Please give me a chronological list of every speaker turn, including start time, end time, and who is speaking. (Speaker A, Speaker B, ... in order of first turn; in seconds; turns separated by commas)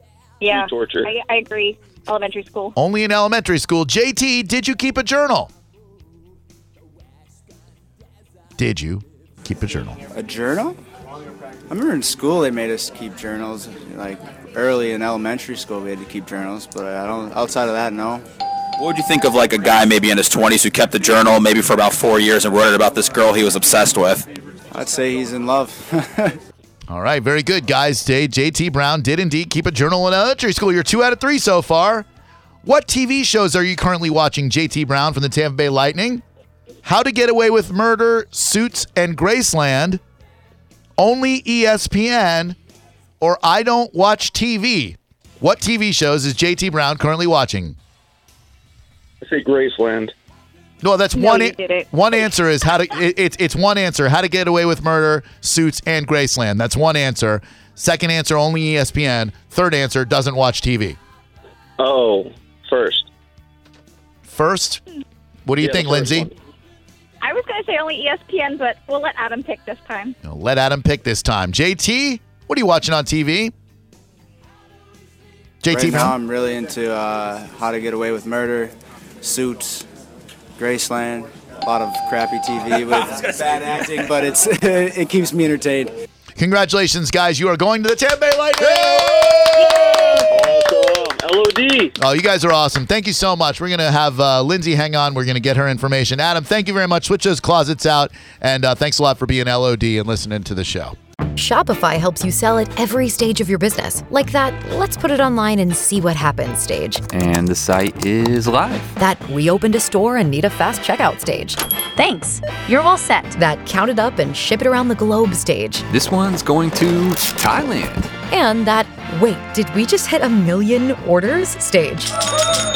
Speaker A: 0.4-2.7, Speaker B: 0.4-1.1, Speaker C: 2.8-5.5, Speaker C: 8.6-10.0, Speaker D: 10.1-10.8, Speaker D: 11.7-18.2, Speaker E: 18.8-24.2, Speaker D: 24.7-26.4, Speaker C: 26.9-32.0, Speaker C: 32.6-36.2, Speaker C: 36.8-40.0, Speaker C: 41.0-42.6, Speaker C: 43.2-47.8, Speaker B: 49.2-50.1, Speaker C: 50.8-61.0, Speaker A: 51.1-52.1, Speaker B: 61.8-63.1, Speaker C: 64.2-64.8, Speaker C: 65.5-66.3, Speaker B: 65.6-66.3, Speaker A: 67.2-70.2, Speaker C: 70.2-73.5, Speaker C: 75.6-76.1, Speaker D: 75.7-79.9, Speaker D: 80.6-85.9, Speaker C: 86.3-90.2, Speaker B: 89.5-91.9, Speaker C: 92.0-101.0, Speaker F: 101.3-107.0, Speaker G: 107.1-108.9, Speaker F: 109.0-115.8, Speaker G: 115.9-118.1, Speaker F: 118.3-122.1